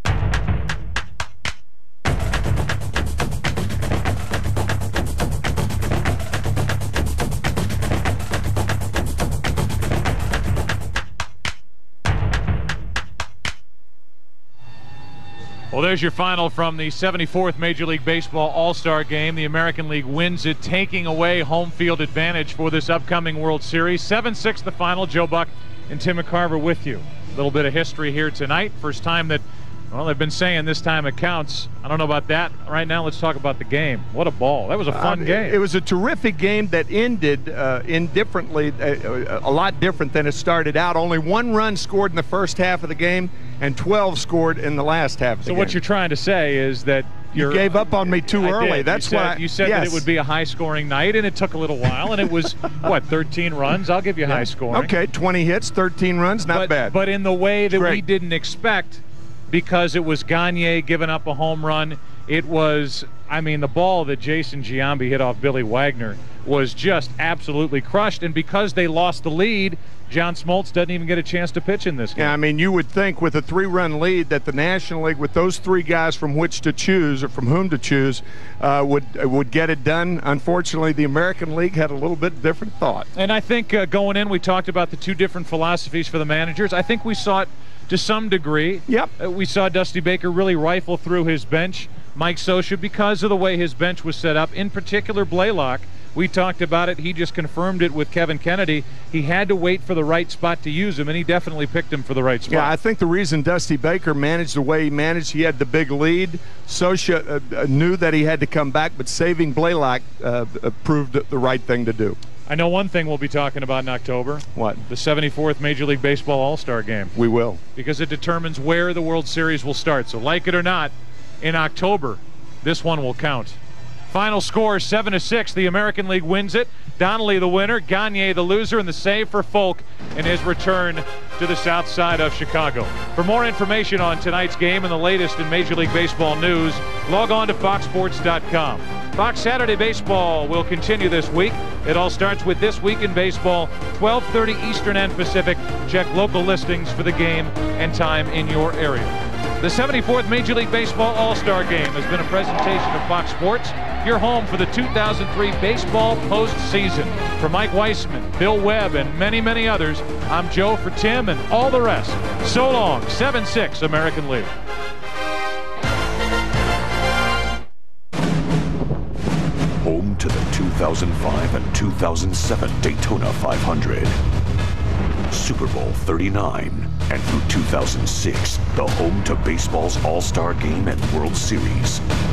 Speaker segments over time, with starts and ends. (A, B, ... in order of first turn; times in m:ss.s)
0:15.7-0:35.6 A
0:34.9-0:45.8 B
0:45.5-0:54.9 A
0:47.3-0:50.1 B
0:54.3-0:57.0 B
0:56.5-1:12.3 A
0:57.7-0:58.0 B
1:12.2-1:23.1 B
1:23.2-1:42.7 A
1:42.5-1:52.2 B
1:52.5-1:57.1 A
1:54.6-1:54.8 B
1:57.2-1:57.6 B
1:57.8-2:03.6 A
2:04.1-2:44.5 A
2:49.8-2:54.2 C
2:55.3-3:02.0 C